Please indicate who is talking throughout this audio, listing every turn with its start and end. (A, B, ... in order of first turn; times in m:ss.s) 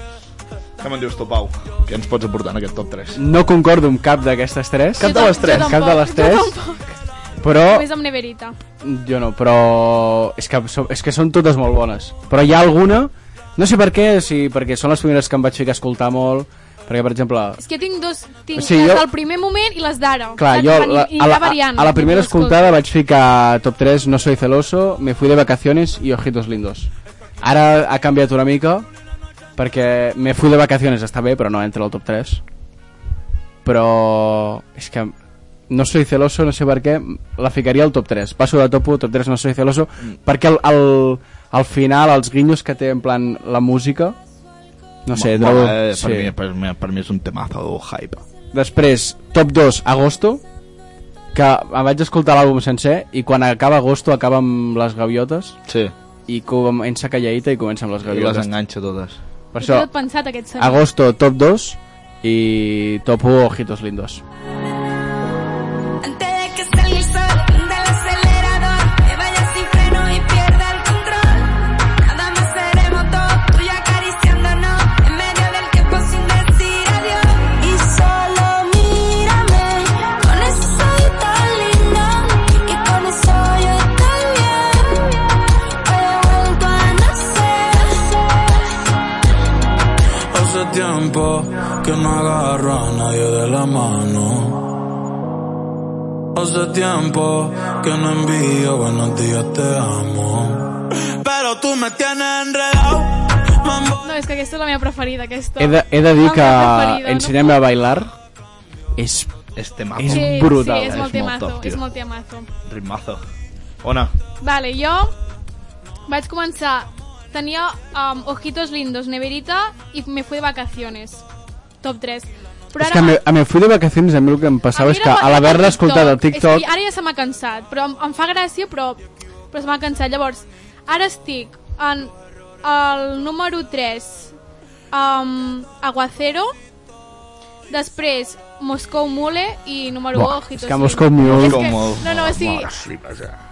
0:00.8-0:03.2 A
0:03.1-0:06.5 B
0:05.0-0:05.8 A
0:05.0-0:07.0 C
0:07.4-0:07.8 B
0:07.5-0:08.6 C
0:08.8-0:17.6 B
0:17.6-0:22.8 C
0:18.6-0:19.0 B
0:20.4-0:26.9 B
0:27.4-0:28.9 B
0:29.6-0:32.4 B
0:33.6-0:35.1 B
0:35.7-0:44.2 B
0:45.0-0:46.3 B
0:45.1-0:48.2 A
0:48.5-0:50.4 B
0:51.3-0:55.6 B
0:55.7-0:55.9 A
0:56.3-0:58.5 B
0:58.0-0:59.2 A
0:59.5-0:59.9 B
0:59.6-1:00.8 C
1:00.6-1:04.2 B
1:06.0-1:25.2 D
1:25.8-1:28.2 D
1:30.3-1:34.7 E
1:36.3-1:44.0 E
1:44.0-1:47.6 C
1:45.6-1:48.1 B
1:49.0-1:49.3 B
1:49.5-1:51.8 A
1:50.0-1:51.1 B
1:50.0-1:52.5 C
1:52.6-1:53.2 A
1:53.8-1:54.1 A
1:54.4-1:55.1 C
1:56.1-2:01.2 C
2:01.8-2:03.2 C
2:02.8-2:06.6 B
2:04.7-2:09.0 C
2:09.5-2:12.1 C
2:12.6-2:14.3 C
2:14.9-2:16.5 C
2:17.7-2:22.7 C
2:20.1-2:21.6 B
2:21.2-2:23.4 A